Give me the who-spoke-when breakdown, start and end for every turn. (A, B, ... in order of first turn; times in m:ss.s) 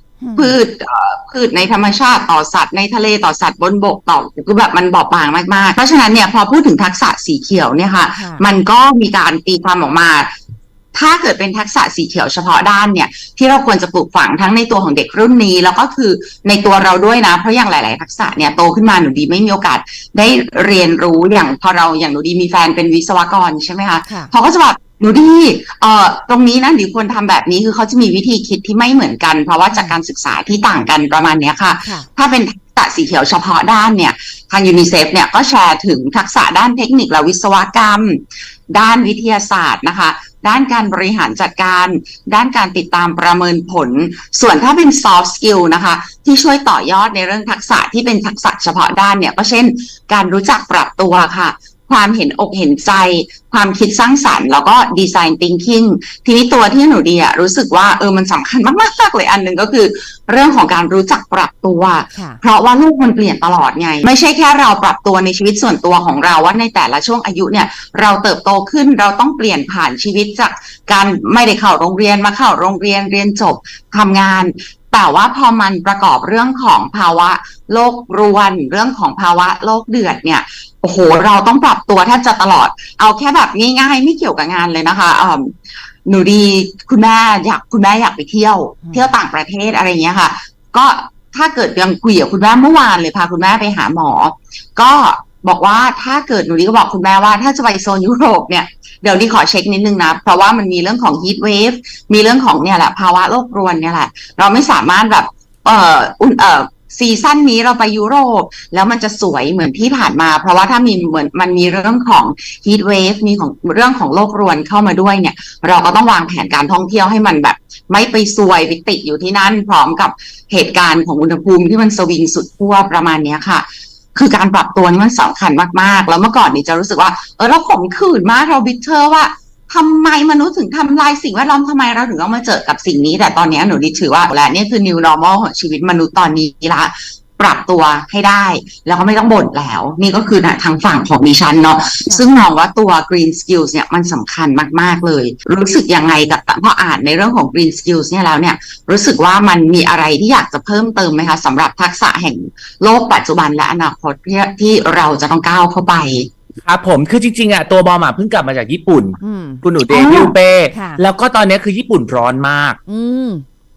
0:00.2-0:00.6 A
0:00.4-0:10.3 B
0:08.2-0:08.4 A
0:10.9-2:36.3 B
0:24.1-0:24.3 A
0:29.7-0:30.0 A
0:31.8-0:32.1 A
1:02.1-1:02.4 A
1:28.8-1:29.1 A
2:22.0-2:22.3 A
2:36.6-2:42.8 C
2:39.2-2:39.6 A
2:39.9-2:40.4 B
2:40.7-2:41.0 A
2:42.9-2:43.4 A